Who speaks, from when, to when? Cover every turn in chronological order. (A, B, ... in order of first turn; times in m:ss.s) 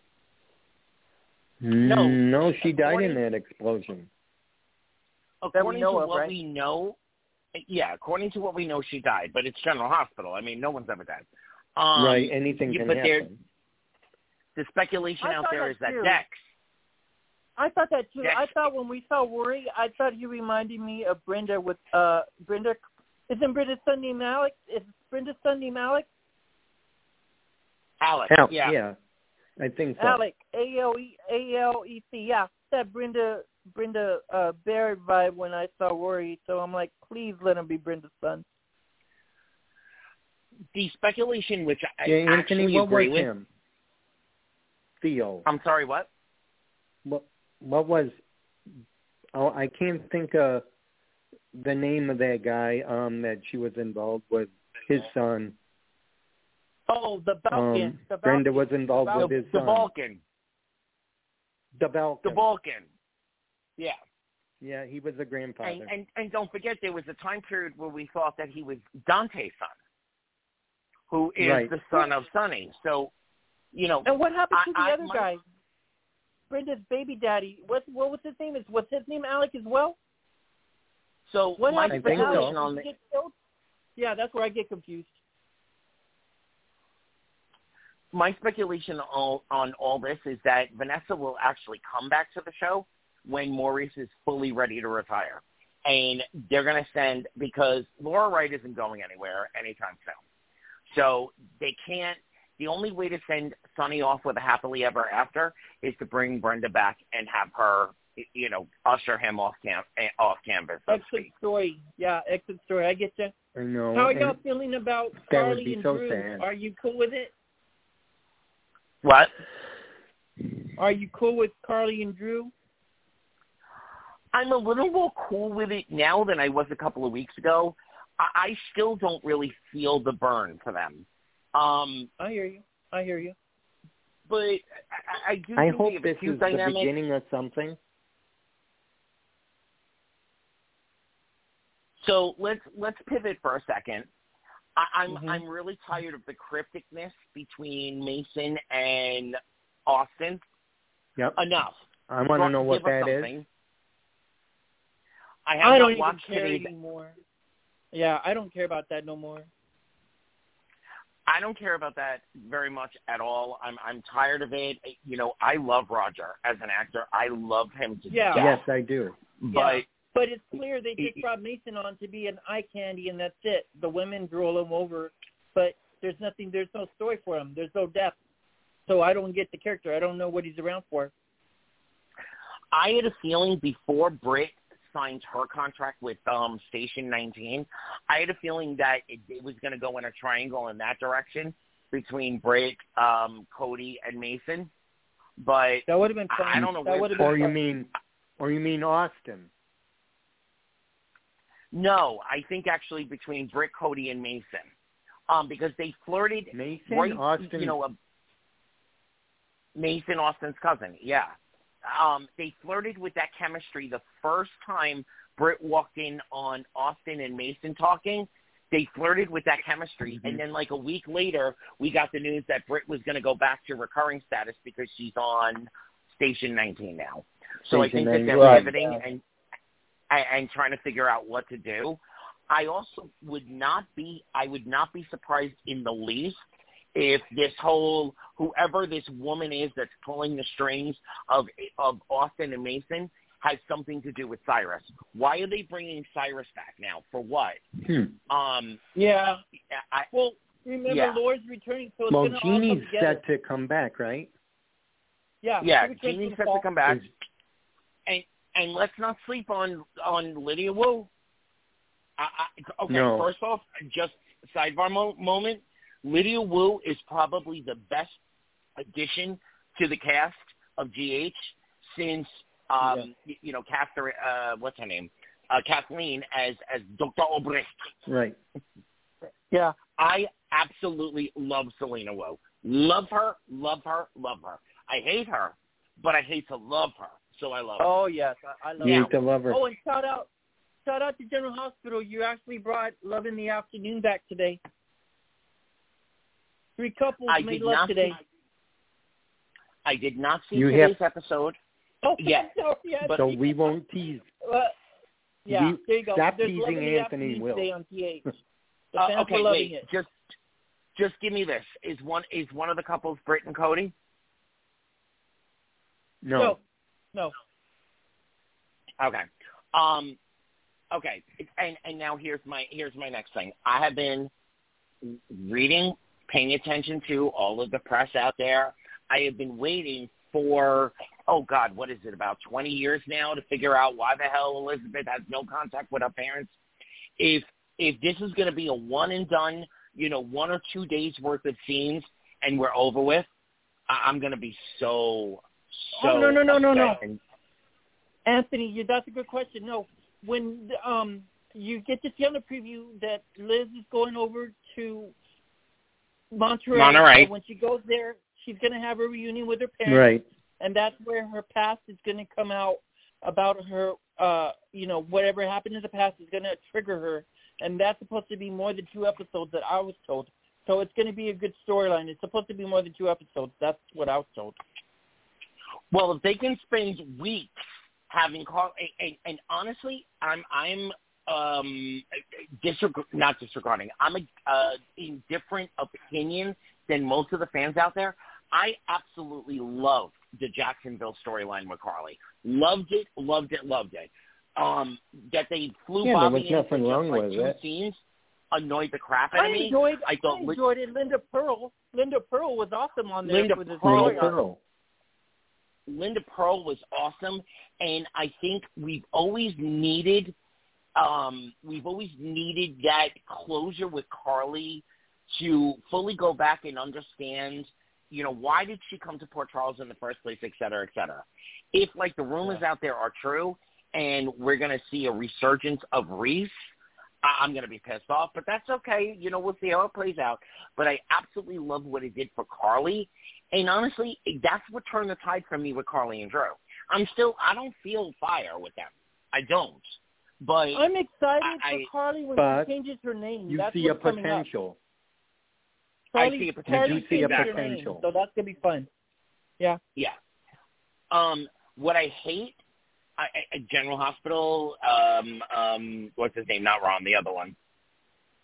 0:01.6-0:04.1 A
0:01.8-0:03.2 B
0:05.4-0:07.0 B
0:05.5-0:06.3 C
0:07.5-0:11.2 B
0:11.8-0:13.3 B
0:11.9-0:13.4 A
0:14.6-0:16.4 B
0:15.2-0:16.2 C
0:17.6-0:22.8 C
0:18.2-0:18.5 B
0:23.3-0:26.1 C
0:28.0-0:28.8 B
0:28.3-0:29.0 A
0:29.6-0:30.2 A
0:30.0-0:38.4 C
0:40.7-0:43.3 B
0:42.0-0:43.4 A
0:45.0-0:45.4 A
0:45.4-0:46.1 B
0:47.0-0:48.2 A
0:49.3-0:50.6 A
0:51.5-0:55.6 A
0:56.9-0:59.5 C
0:57.5-0:59.9 A
0:59.2-1:00.2 B
1:01.8-1:02.4 A
1:02.2-1:02.8 B
1:04.6-1:05.9 A
1:05.6-1:09.7 B
1:11.1-1:13.1 B
1:11.4-1:11.8 A
1:13.7-1:15.3 B
1:14.0-1:15.4 C
1:16.5-1:20.0 C
1:21.3-1:22.9 B
1:21.6-1:23.3 C
1:21.9-1:22.6 A
1:24.0-1:25.1 C
1:28.1-1:40.2 B
1:40.9-1:51.3 B
1:50.9-1:53.3 C
1:53.6-1:54.4 A
1:53.9-1:57.3 C
1:55.3-1:56.4 A
1:59.0-1:59.3 B
2:00.8-2:02.5 C
2:04.3-2:12.1 B
2:12.2-2:13.3 C
2:14.3-2:16.9 B
2:15.6-2:17.8 A
2:22.0-2:24.1 B
2:24.8-2:30.4 B
2:25.1-2:25.4 A
2:31.4-2:33.4 B
2:32.1-2:33.3 A
2:35.4-2:36.7 B
2:35.6-2:37.1 C
2:37.9-2:39.5 C
2:41.3-2:48.6 B
2:48.1-2:48.5 C
2:48.3-2:49.2 A
2:49.4-2:49.8 B
2:49.5-2:58.2 C
2:51.0-2:51.2 B
2:58.9-3:01.1 C
3:02.7-3:14.7 B
3:15.4-3:17.4 B
3:15.9-3:17.5 C
3:17.2-3:19.5 A
3:21.7-3:24.7 B
3:25.3-3:27.9 B
3:26.5-3:27.8 A
3:29.8-3:49.2 B
3:47.7-3:48.8 A
3:48.4-3:48.7 C
3:50.1-3:56.4 B
3:56.9-4:07.6 B
4:07.8-4:08.1 A
4:08.3-4:08.8 B
4:08.9-4:09.4 C
4:09.7-4:10.1 B
4:10.1-4:13.2 C
4:10.9-4:11.2 B
4:12.1-4:14.3 A
4:15.4-4:16.7 C
4:15.6-4:17.1 B
4:18.1-4:21.1 B
4:22.2-4:28.2 B
4:22.9-4:23.3 A
4:28.8-4:37.9 B
4:38.1-4:38.4 A
4:39.5-4:39.8 C
4:39.8-4:47.9 B
4:47.8-4:50.3 C
4:48.8-4:49.6 A
4:48.8-4:49.1 B
4:50.8-4:54.6 C
4:56.8-4:58.2 C
4:57.3-4:58.2 B
4:59.8-5:01.6 B
5:00.5-5:00.9 A
5:02.0-5:03.6 C
5:02.2-5:02.5 B
5:03.2-5:04.2 A
5:04.4-5:04.7 C
5:05.4-5:08.3 C
5:05.5-5:07.7 A
5:08.9-5:09.8 C
5:08.9-5:10.1 B
5:11.0-5:13.9 B
5:16.2-5:16.6 A
5:19.0-5:20.2 B
5:20.9-5:24.3 B
5:25.0-5:36.6 B
5:37.2-5:43.3 B
5:43.9-5:47.2 B
5:46.0-5:47.0 C
5:48.2-5:55.1 C
5:56.3-6:00.1 C
5:56.7-5:57.3 B
5:59.8-6:00.2 A
6:00.6-6:14.6 C
6:15.9-6:17.6 B
6:18.1-6:22.0 B
6:22.6-6:38.0 B
6:36.0-6:37.6 A
6:38.5-6:40.6 B
6:39.3-6:44.3 C
6:43.2-6:44.3 B
6:43.8-6:44.6 A
6:45.9-6:50.3 B
6:51.0-7:06.5 B
7:07.2-7:20.8 B
7:20.7-7:24.4 C
7:21.4-7:21.9 B
7:22.4-7:22.7 A
7:23.5-7:24.8 A
7:26.1-7:28.9 C
7:26.1-7:27.7 B
7:26.7-7:28.0 A
7:31.1-7:32.6 B
7:33.2-7:37.5 B